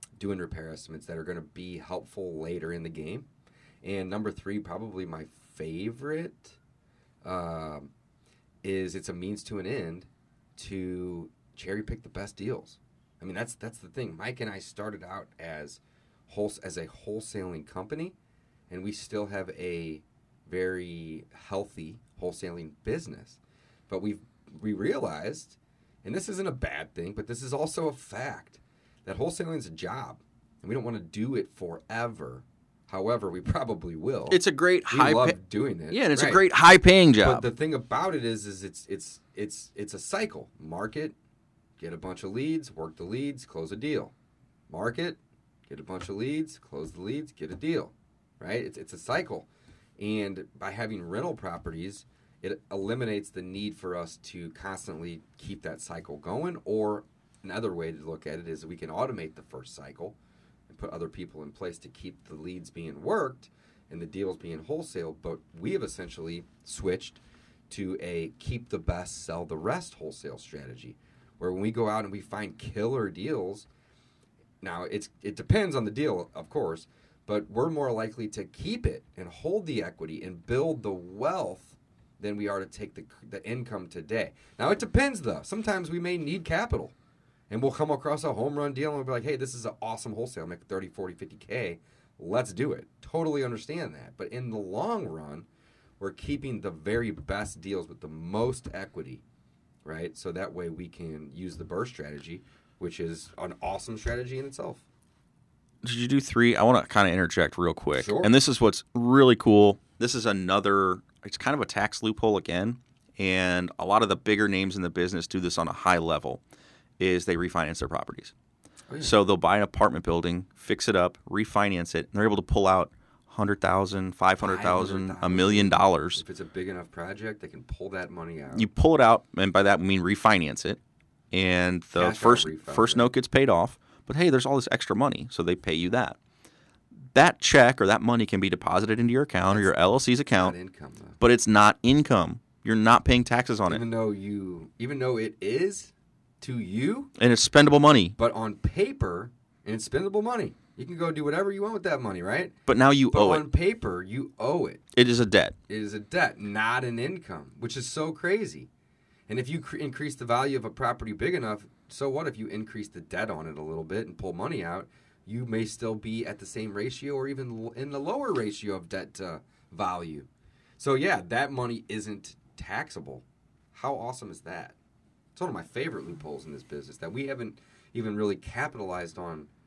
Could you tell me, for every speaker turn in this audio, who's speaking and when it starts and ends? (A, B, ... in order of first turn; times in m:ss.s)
0:00.2-0:03.3 A
0:03.8-0:06.6 A
0:07.2-0:07.9 A
0:08.6-0:18.2 A
0:18.7-0:36.4 A
0:34.3-0:35.4 B
0:35.9-0:37.5 B
0:37.2-0:41.2 A
0:41.8-0:44.1 A
0:44.7-1:00.2 A
1:00.7-1:13.7 A
1:14.6-1:27.0 A
1:27.5-1:35.5 A
1:36.0-1:39.2 A
1:39.8-1:44.8 A
1:45.8-1:56.4 B
1:48.0-1:48.3 A
1:57.0-1:58.3 B
1:58.9-1:59.2 A
1:59.0-2:06.2 B
2:04.4-2:08.7 A
2:08.5-2:10.8 B
2:11.3-2:16.2 B
2:11.9-2:13.1 A
2:17.2-2:20.6 B
2:19.5-2:19.8 A
2:20.3-2:21.2 A
2:21.2-2:23.8 B
2:23.7-2:27.1 A
2:27.2-2:28.2 B
2:28.2-2:32.6 A
2:32.7-2:33.4 B
2:33.1-2:34.8 A
2:34.9-2:35.6 B
2:35.7-2:38.7 A
2:39.3-2:54.8 A
2:55.4-2:59.5 A